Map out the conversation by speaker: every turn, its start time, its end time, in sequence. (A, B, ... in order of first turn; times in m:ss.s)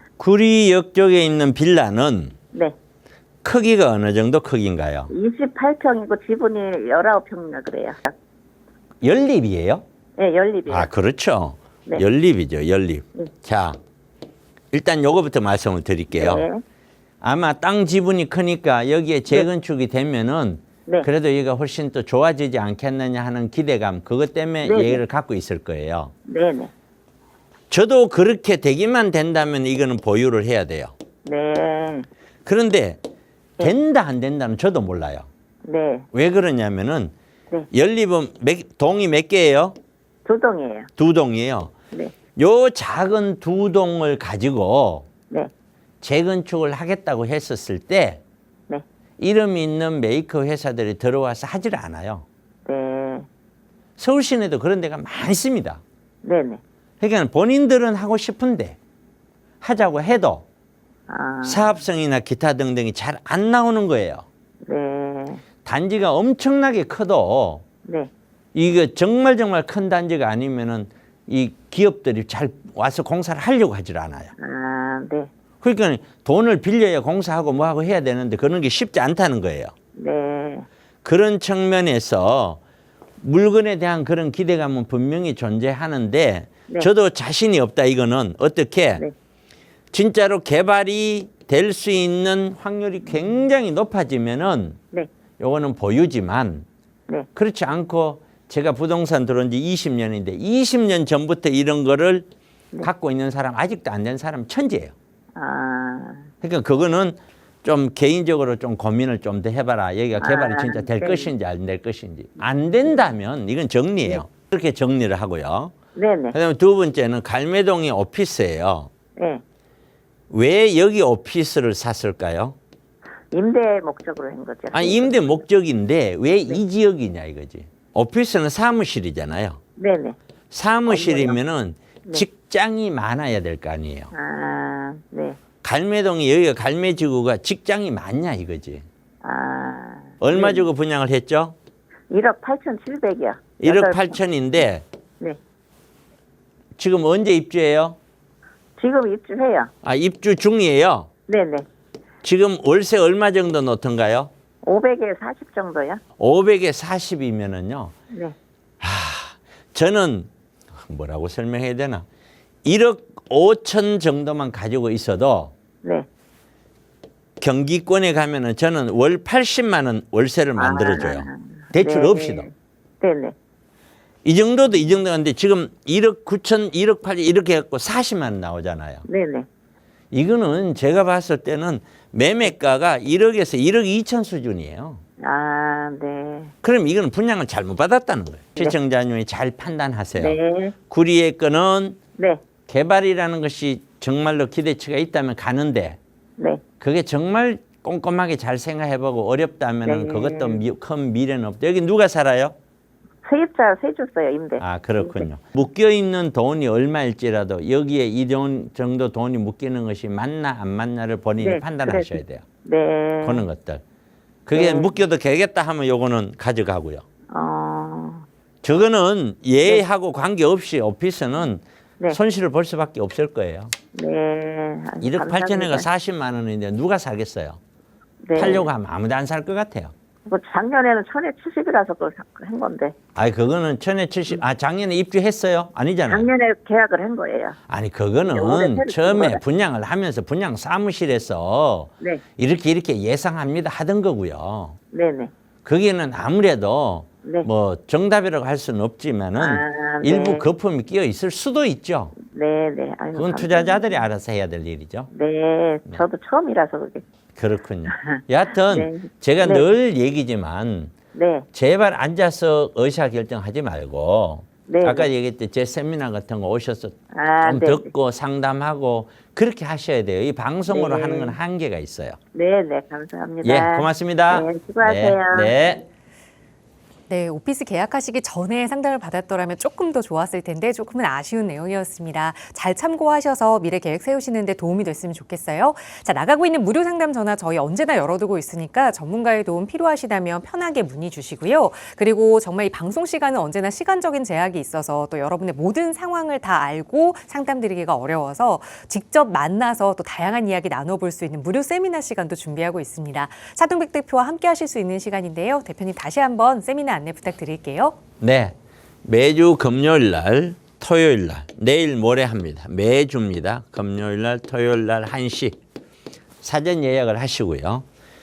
0:00.2-0:02.4 A
0:03.4-0:05.1 A
0:05.1-0:08.1 B
0:09.0-0:09.8 A
0:10.2-0:10.9 B
0:10.7-0:13.8 A
0:14.7-0:16.5 A
0:16.2-0:16.6 B
0:17.2-0:26.1 A
0:24.6-0:25.0 B
0:26.3-0:26.7 B
0:27.7-0:30.9 A
0:31.3-0:32.1 B
0:32.4-0:33.0 A
0:33.6-0:35.3 A
0:35.6-0:36.1 B
0:36.1-0:37.1 A
0:37.7-0:39.8 A
0:40.3-0:40.9 B
0:41.0-0:41.7 A
0:42.4-0:45.1 A
0:46.0-0:48.2 A
0:49.2-0:52.3 A
0:52.7-0:53.3 B
0:54.0-0:55.8 A
0:56.2-0:56.6 B
0:57.0-0:58.8 A
0:59.6-1:00.5 A
1:01.1-1:01.8 B
1:01.4-1:04.3 A
1:04.7-1:05.4 B
1:05.6-1:07.7 A
1:07.9-1:08.1 B
1:08.6-1:14.3 A
1:14.4-1:15.3 B
1:15.6-1:19.7 A
1:20.0-1:20.7 B
1:21.0-1:22.6 A
1:23.2-1:29.0 A
1:29.9-1:34.8 A
1:35.4-1:36.7 A
1:37.4-1:42.3 A
1:42.8-1:44.9 A
1:45.4-1:46.3 B
1:46.4-1:55.8 A
1:50.2-1:51.3 B
1:56.0-1:56.4 B
1:56.3-1:58.9 A
1:59.2-1:59.4 B
2:00.3-2:02.6 A
2:03.3-2:05.4 B
2:04.7-2:09.6 A
2:09.8-2:10.2 B
2:10.5-2:14.1 A
2:10.9-2:11.4 B
2:14.1-2:15.4 B
2:15.6-2:18.8 A
2:19.2-2:20.7 B
2:20.2-2:21.6 A
2:22.1-2:24.6 B
2:23.6-2:24.8 A
2:26.8-2:28.0 A
2:28.8-2:29.7 B
2:29.8-2:31.1 A
2:31.3-2:31.7 B
2:32.2-2:34.3 A
2:34.6-2:36.0 B
2:36.2-2:37.9 A
2:38.8-2:40.3 A
2:40.8-2:42.1 A
2:42.6-2:45.5 A
2:47.4-2:52.5 A
2:50.6-2:53.4 B
2:54.2-2:59.1 A
2:59.1-2:59.5 B
3:00.1-3:05.0 A
3:05.2-3:06.5 B
3:06.6-3:12.0 A
3:10.2-3:10.8 B
3:12.2-3:12.4 B
3:12.7-3:16.0 A
3:16.4-3:16.6 B
3:16.8-3:22.6 A
3:19.8-3:20.6 B
3:23.2-3:25.3 B
3:24.6-3:32.5 A
3:31.4-3:33.5 B
3:33.2-3:33.8 A
3:34.5-3:37.0 A
3:34.6-3:35.0 B
3:37.3-3:38.2 B
3:38.6-3:43.7 A
3:43.9-3:45.9 B
3:45.0-3:47.6 A
3:48.3-3:48.7 B
3:48.4-3:49.9 A
3:50.3-3:53.0 B
3:53.2-3:56.3 A
3:56.1-3:57.6 B
3:57.7-4:04.8 A
3:58.2-3:59.4 B
4:04.9-4:05.3 B
4:05.6-4:12.2 A
4:09.4-4:10.5 B
4:12.2-4:14.0 B
4:13.2-4:15.1 A
4:15.1-4:17.0 B
4:17.4-4:20.9 A
4:18.7-4:19.7 B
4:21.1-4:21.5 B
4:21.5-4:32.2 A
4:24.7-4:25.1 B
4:27.1-4:27.9 B
4:30.7-4:31.4 B
4:32.3-4:35.6 B
4:33.4-4:35.8 A
4:37.1-5:08.0 C
5:08.2-5:15.6 A
5:16.4-5:17.9 A